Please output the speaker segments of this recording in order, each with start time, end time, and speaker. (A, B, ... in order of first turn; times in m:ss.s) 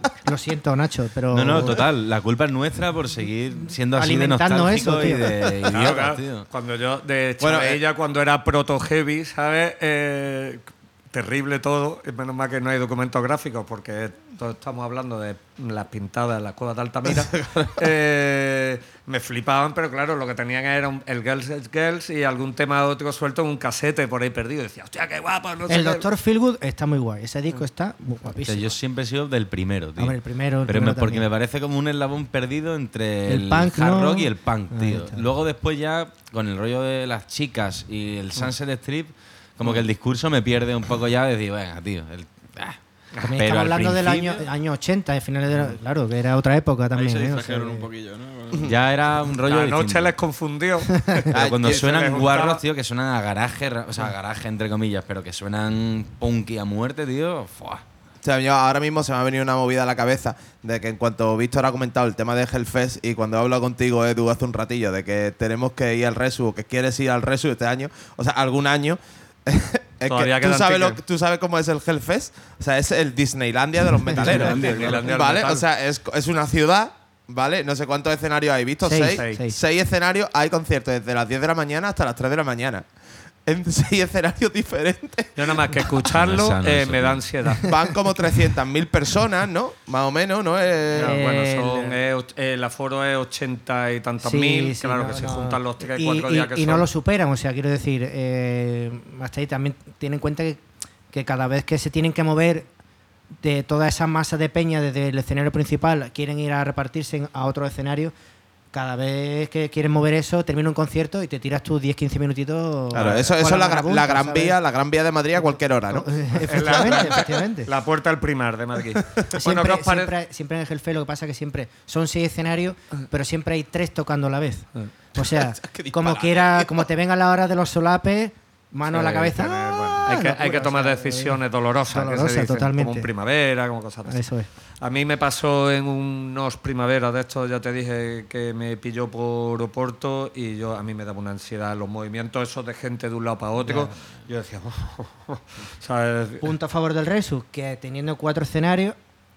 0:00.2-0:01.8 A
0:01.3-0:06.5 B
0:03.9-0:05.4 A
0:05.7-0:26.0 C
0:07.4-0:07.8 D
0:17.0-0:17.7 D
0:25.7-0:28.7 A
0:28.4-0:42.8 B
0:30.0-0:31.3 A
0:33.3-0:35.3 A
0:43.2-0:47.9 A
0:43.4-0:44.4 B
0:46.9-0:48.7 E
0:48.6-0:50.1 B
0:49.4-0:52.6 C
0:51.3-0:57.8 B
0:51.3-0:51.9 D
0:58.2-1:22.8 D
1:10.0-1:11.0 C
1:14.2-1:15.3 E
1:14.2-1:15.6 C
1:18.8-1:19.6 A
1:19.1-1:19.4 C
1:23.4-1:25.8 D
1:25.4-1:27.6 C
1:26.1-1:27.2 B
1:27.7-1:31.2 D
1:30.9-1:32.0 A
1:30.9-1:36.9 C
1:34.2-1:42.7 A
1:43.4-1:48.1 A
1:48.7-1:54.6 A
1:52.9-1:57.2 D
1:52.9-1:53.3 C
1:55.4-1:57.7 A
1:56.5-2:00.1 C
1:59.3-2:13.1 A
2:05.2-2:06.8 D
2:08.8-2:14.2 C
2:14.0-2:14.5 A
2:14.8-2:26.5 C
2:23.6-2:23.9 A
2:26.4-2:29.0 A